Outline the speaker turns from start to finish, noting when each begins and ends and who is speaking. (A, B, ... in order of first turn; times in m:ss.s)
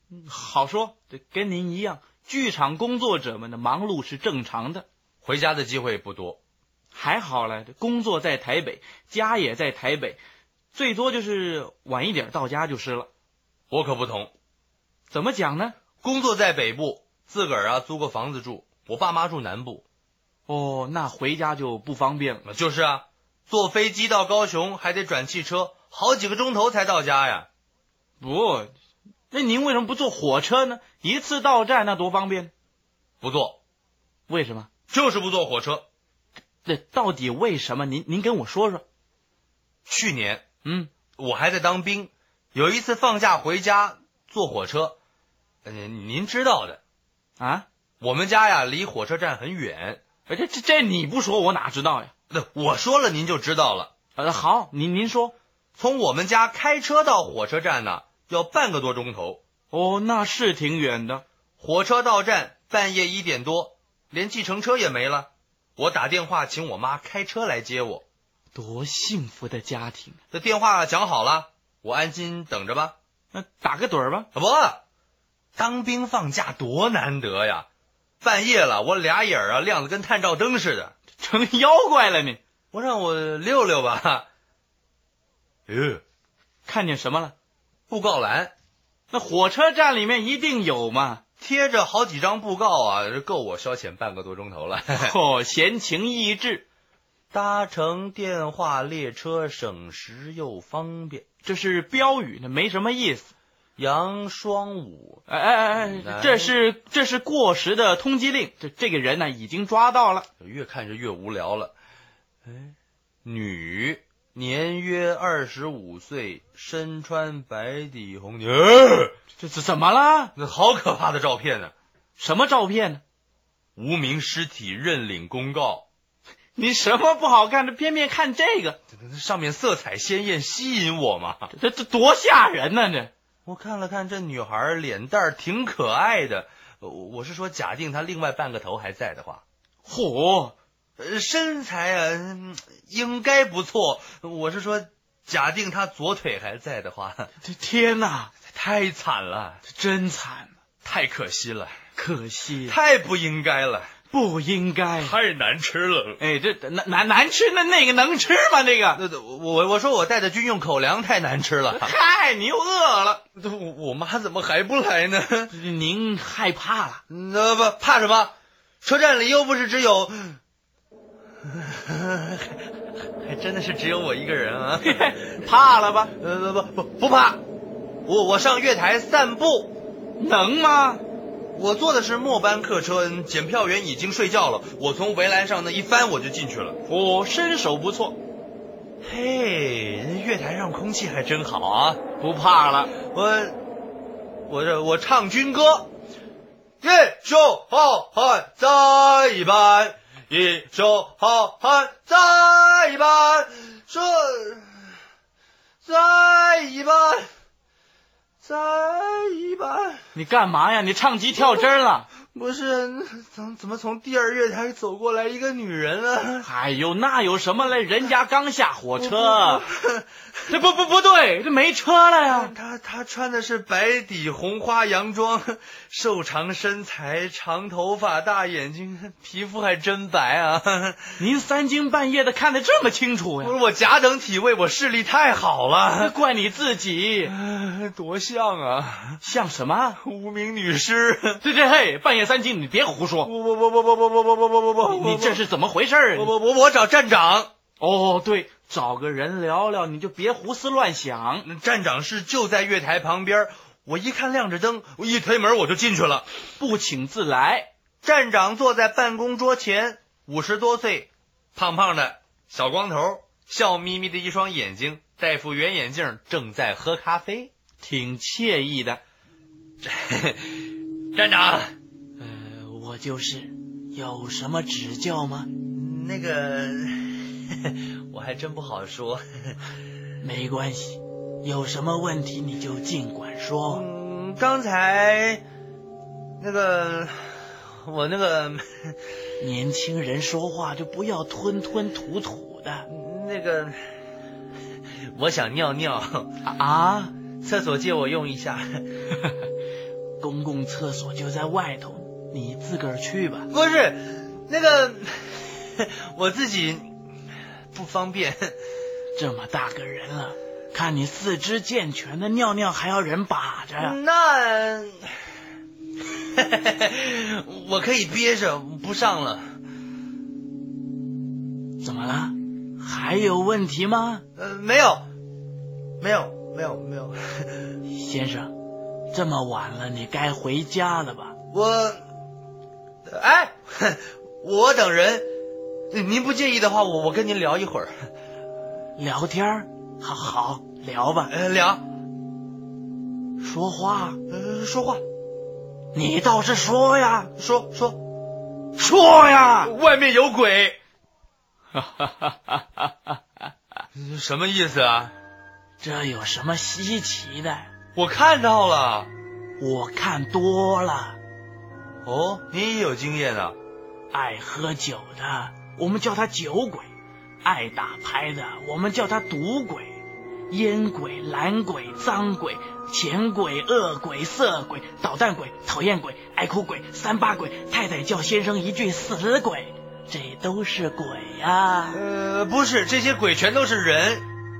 0:00.1-0:04.8 A
0:05.2-0:06.4 B
0:06.9-0:10.2 A
0:10.7-0:13.1 A
0:13.7-0:14.3 B
0:15.1-0:15.8 A
0:16.0-0:19.8 B
0:20.5-0:22.4 A
0:22.4-0:27.5 B
0:28.2-0:28.7 A
0:29.3-0:32.5 A
0:33.2-0:33.6 B
0:34.3-0:34.7 A
0:34.9-0:35.8 B
0:36.6-0:38.8 A
0:39.9-0:40.4 B
0:40.6-0:40.9 A
0:41.2-0:45.0 B
0:45.6-0:46.8 B
0:47.4-0:47.6 A
0:48.0-0:50.0 B
0:50.3-0:52.1 A
0:52.3-0:53.9 B
0:54.2-0:55.3 A
0:55.8-0:59.4 B
0:59.7-1:01.2 A
1:01.6-1:08.0 B
1:08.5-1:10.2 A
1:10.3-1:12.9 B
1:13.3-1:14.3 A
1:14.3-1:14.8 B
1:15.6-1:17.6 B
1:18.2-1:20.9 B
1:21.2-1:22.4 A
1:22.7-1:24.2 B
1:25.7-1:26.0 B
1:26.6-1:27.3 A
1:27.9-1:28.5 B
1:29.1-1:31.2 A
1:31.4-1:35.2 B
1:34.9-1:36.6 A
1:37.3-1:41.2 B
1:41.4-1:43.3 A
1:43.8-1:45.2 B
1:45.3-1:50.3 A
1:45.8-1:46.6 B
1:50.4-1:51.7 B
1:52.4-1:59.1 B
1:59.4-2:00.3 A
2:00.4-2:01.7 B
2:02.2-2:03.0 A
2:03.8-2:05.8 B
2:06.6-2:08.8 A
2:08.9-2:11.5 B
2:11.5-2:13.1 A
2:13.4-2:19.4 B
2:19.8-2:20.5 A
2:21.0-2:27.3 B
2:27.4-2:28.3 A
2:28.5-2:29.6 B
2:29.6-2:30.5 A
2:30.8-2:31.8 B
2:32.0-2:32.8 A
2:32.6-2:33.9 B
2:34.1-2:35.1 A
2:35.0-2:36.2 B
2:36.2-2:39.0 A
2:38.9-2:41.9 B
2:41.7-2:43.2 A
2:43.3-2:45.5 B
2:45.5-2:47.0 A
2:47.1-2:50.4 B
2:51.4-2:52.6 B
2:53.2-2:55.2 B
2:54.8-2:56.1 A
2:56.2-2:57.4 B
2:58.0-2:59.7 B
3:00.2-3:01.0 A
3:01.5-3:06.8 B
3:06.9-3:08.2 A
3:09.0-3:12.0 B
3:12.2-3:12.9 A
3:13.0-3:13.6 B
3:14.5-3:15.9 B
3:16.8-3:24.9 B
3:25.8-3:27.3 B
3:28.4-3:30.0 B
3:30.1-3:32.1 A
3:32.3-3:36.5 B
3:36.4-3:39.6 A
3:39.0-3:40.0 B
3:40.5-3:42.5 A
3:42.2-3:51.2 B
3:51.2-3:53.6 A
3:53.4-3:56.1 B
3:56.0-3:57.3 A
3:57.2-3:59.2 B
3:59.2-4:00.0 A
4:00.0-4:01.4 B
4:01.4-4:03.3 A
4:03.2-4:05.4 B
4:04.8-4:06.3 A
4:06.1-4:07.5 B
4:07.8-4:11.5 A
4:11.4-4:16.3 B
4:16.6-4:17.7 A
4:18.0-4:27.5 B
4:27.8-4:29.0 A
4:29.8-4:31.7 B
4:32.2-4:35.5 A
4:35.7-4:39.5 B
4:40.2-4:43.8 A
4:43.7-4:45.4 B
4:46.4-4:48.9 B
4:49.4-4:52.9 A
4:52.9-4:53.8 B
4:55.1-4:56.3 B
4:56.4-4:57.1 A
4:57.4-4:58.8 B
5:00.2-5:03.5 A
5:03.5-5:06.9 B
5:07.7-5:08.6 B
5:09.1-5:14.0 A
5:13.8-5:15.2 B
5:16.2-5:19.5 B
5:21.8-5:24.2 A
5:24.4-5:25.1 B
5:26.0-5:27.7 B
5:27.9-5:28.5 A
5:29.1-5:31.3 A
5:31.5-5:32.0 B
5:33.0-5:35.3 B
5:35.9-5:38.1 B
5:39.0-5:41.3 A
5:41.3-5:41.8 B
5:43.4-5:44.2 A
5:44.3-5:45.0 B
5:45.9-5:47.3 A
5:47.4-5:48.0 B
5:48.8-5:49.7 A
5:49.6-5:50.8 B
5:51.7-5:52.9 A
5:53.9-5:55.1 B
5:55.8-5:57.7 A
5:57.9-5:59.1 B
5:59.6-6:01.2 A
6:02.0-6:03.6 B
6:04.1-6:06.9 A
6:07.4-6:10.0 A
6:10.5-6:22.0 A
6:21.9-6:24.2 B